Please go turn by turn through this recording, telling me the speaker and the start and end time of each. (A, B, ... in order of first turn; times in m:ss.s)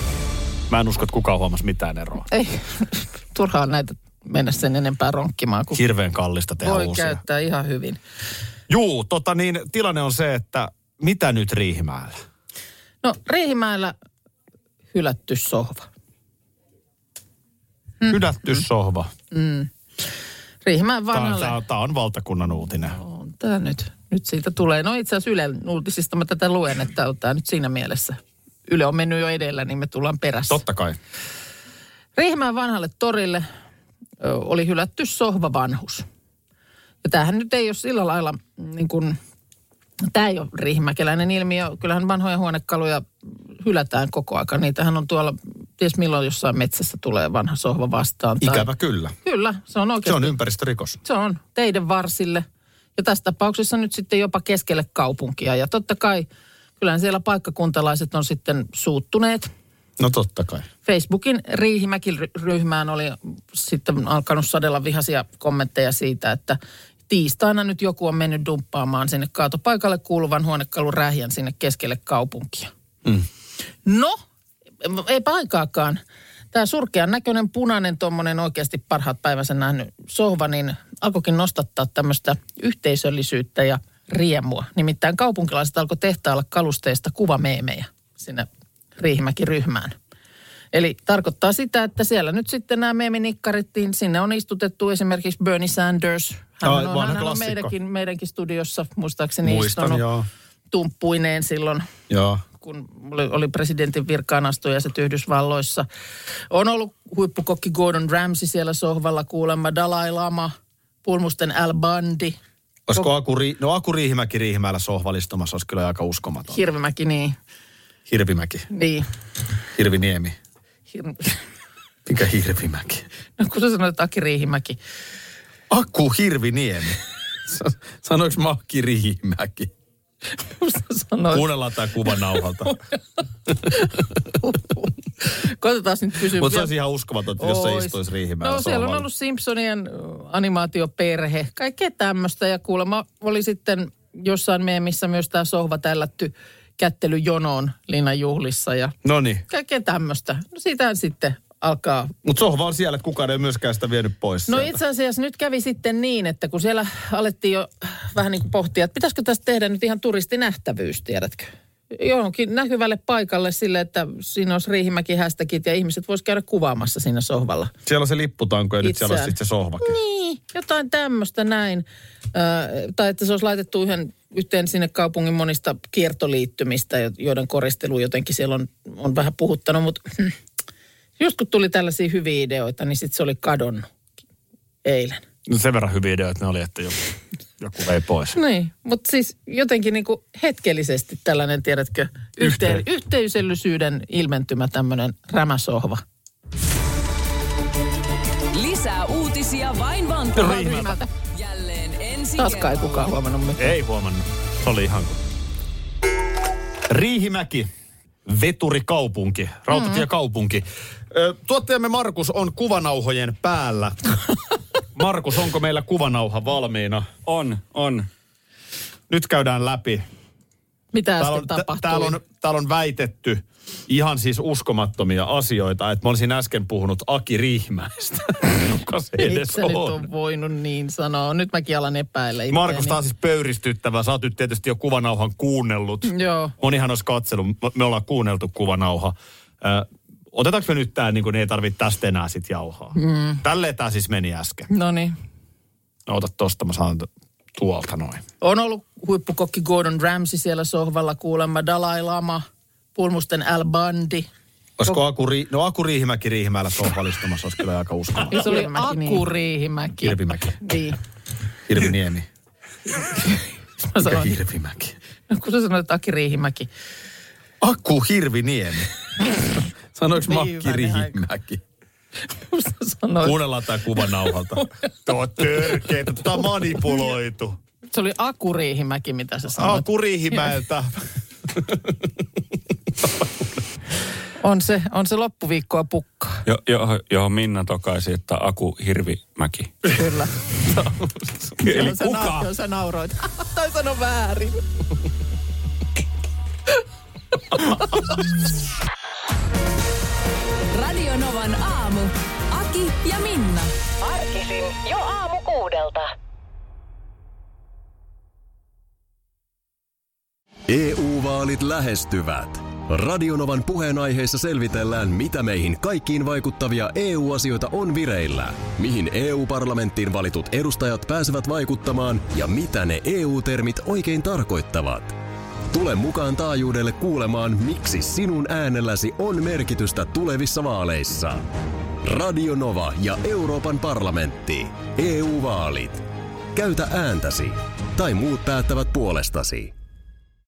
0:00.7-0:02.3 A
0:02.3-0:05.8 B
0:05.7-0:07.2 A
0:06.6-0:08.0 B
0:08.7-0:12.2 A
0:13.0-0:13.9 B
0:14.9-0:15.9 B
0:18.0-0:18.6 B
0:18.1-0:19.1 A
0:19.3-0:19.7 B
0:20.6-0:21.6 B
0:21.1-0:23.0 A
0:23.0-0:30.6 B
0:30.5-0:31.0 A
0:32.2-0:33.4 B
0:34.2-0:36.1 B
0:37.0-0:39.2 B
0:40.0-0:48.7 B
0:48.4-0:49.2 A
0:49.2-0:50.4 B
0:50.0-0:51.0 A
0:51.0-0:52.4 B
0:53.0-0:56.3 B
0:56.8-0:59.5 B
1:00.0-1:00.7 A
1:00.8-1:06.6 B
1:07.1-1:12.7 B
1:13.8-1:14.2 B
1:14.8-1:16.0 B
1:16.5-1:30.0 B
1:30.7-1:40.0 B
1:36.6-1:37.7 A
1:39.4-1:40.3 A
1:40.7-1:41.9 B
1:42.1-1:42.4 A
1:42.6-1:45.9 B
1:46.5-1:52.4 B
1:52.9-1:56.6 A
1:56.5-1:57.4 B
1:58.1-1:58.7 A
1:58.7-1:59.0 B
1:59.7-2:00.4 A
2:00.9-2:01.4 B
2:02.1-2:03.0 A
2:03.4-2:04.8 B
2:05.7-2:07.0 A
2:07.5-2:09.7 A
2:10.4-2:11.5 B
2:11.3-2:12.8 A
2:13.6-2:16.7 B
2:16.4-2:19.0 A
2:17.4-2:29.0 B
2:29.0-2:29.4 A
2:29.5-2:32.1 B
2:32.2-2:34.8 A
2:34.5-2:47.7 B
2:47.9-2:50.0 A
2:48.8-3:00.4 B
3:01.2-3:03.9 B
3:04.8-3:05.2 B
3:05.5-3:07.0 A
3:07.6-3:08.4 A
3:08.3-3:16.0 B
3:12.4-3:12.8 A
3:18.5-3:23.1 C
3:20.3-3:21.0 A
3:20.4-3:21.0 B
3:22.4-3:23.8 B
3:23.6-3:25.2 A
3:26.9-3:27.7 A
3:28.3-3:34.2 A
3:29.7-3:30.0 B
3:34.9-3:37.1 A
3:37.3-3:38.1 D
3:39.1-3:40.0 A
3:40.9-3:42.2 B
3:41.2-3:50.0 A
3:49.2-3:53.0 B
3:52.5-4:04.7 A
3:56.1-3:56.5 B
4:03.0-4:03.4 B
4:04.7-4:05.1 B
4:06.1-4:08.2 A
4:08.4-4:14.3 B
4:14.8-4:19.3 A
4:18.3-4:21.0 B
4:20.0-4:20.6 A
4:21.7-4:22.3 A
4:23.1-4:24.3 B
4:24.0-4:25.0 A
4:25.3-4:26.7 B
4:27.6-4:28.9 A
4:30.0-4:31.6 A
4:30.2-4:31.2 B
4:32.4-4:33.4 B
4:33.2-4:37.6 A
4:37.9-4:40.5 B
4:39.6-4:40.9 A
4:44.4-4:46.4 B
4:46.5-4:49.9 D
4:49.9-4:50.9 B
4:51.6-4:54.6 B
4:51.7-4:52.4 A
4:51.9-4:52.3 D
4:57.5-4:58.0 B
5:00.7-5:03.8 C
5:04.0-5:06.1 E
5:10.7-5:25.2 F
5:25.7-5:31.4 F
5:32.0-5:39.7 F